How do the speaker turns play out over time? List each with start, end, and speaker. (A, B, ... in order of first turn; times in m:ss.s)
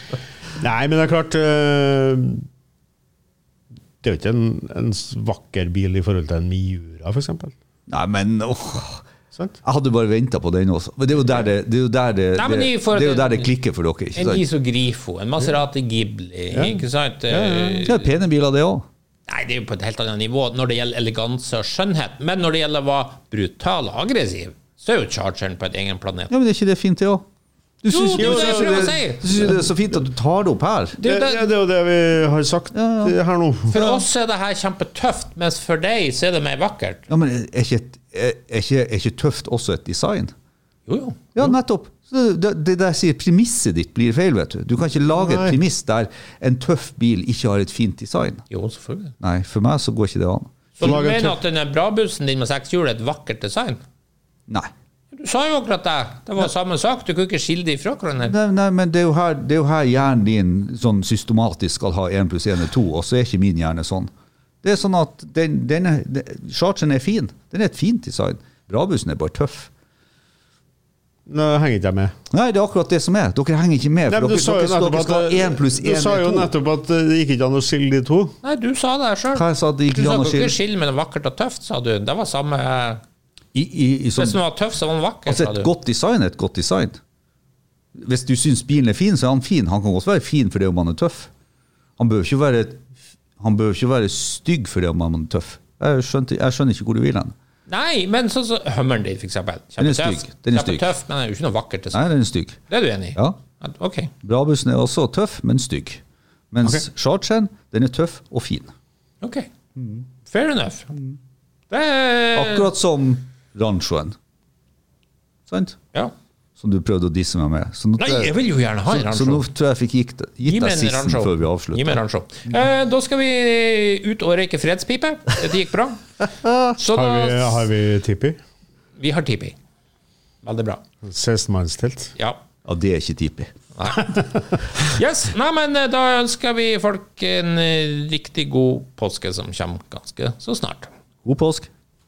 0:00.6-0:02.4 A
0:04.0-0:07.5 A
0:07.9-0:09.0 B
0:09.6-0:14.4 B
0:12.3-0:13.5 C
0:14.1-0:18.1 C
0:16.5-0:17.8 A
0:17.8-0:18.8 B
0:19.3-0:26.3 C
0:26.3-0:27.2 B
0:27.8-0:31.0 B
0:27.9-0:29.3 C
0:28.2-0:29.5 A
0:31.0-0:31.5 C
0:31.0-0:33.8 A
0:32.7-0:33.1 B
0:33.7-0:37.0 C
0:33.7-0:34.0 B
0:37.1-0:40.3 B
0:40.9-0:41.2 C
0:41.3-0:48.4 B
0:45.1-0:45.6 A
0:48.5-0:49.1 C
0:49.2-0:51.0 B
0:50.8-0:53.8 C
0:50.8-0:51.4 A
0:55.1-0:58.3 C
0:58.3-1:04.1 B
1:04.6-1:09.7 B
1:11.3-1:12.1 A
1:12.3-1:16.5 B
1:14.1-1:18.3 A
1:18.4-1:23.0 C
1:19.3-1:20.6 B
1:23.5-1:24.4 B
1:24.2-1:25.7 C
1:25.2-1:27.0 B
1:28.0-1:31.3 B
1:32.0-1:32.8 B
1:33.4-1:37.3 B
1:37.7-1:42.0 C
1:39.8-1:40.9 B
1:41.9-1:42.6 B
1:42.7-1:44.1 C
1:44.2-1:48.7 B
1:49.2-1:49.5 C
1:49.8-1:50.0 B
1:50.2-1:50.9 C
1:51.7-1:52.7 C
1:52.3-1:54.2 B
1:55.5-1:55.8 B
1:56.6-1:58.3 B
1:58.0-1:59.4 C
1:58.9-2:02.0 B
2:00.4-2:06.0 C
2:06.4-2:06.7 B
2:06.8-2:07.7 C
2:06.9-2:08.4 A
2:09.0-2:09.6 C
2:10.4-2:10.8 C
2:11.0-2:12.1 A
2:12.6-2:13.5 B
2:13.8-2:14.2 C
2:14.8-2:20.9 C
2:21.2-2:21.7 B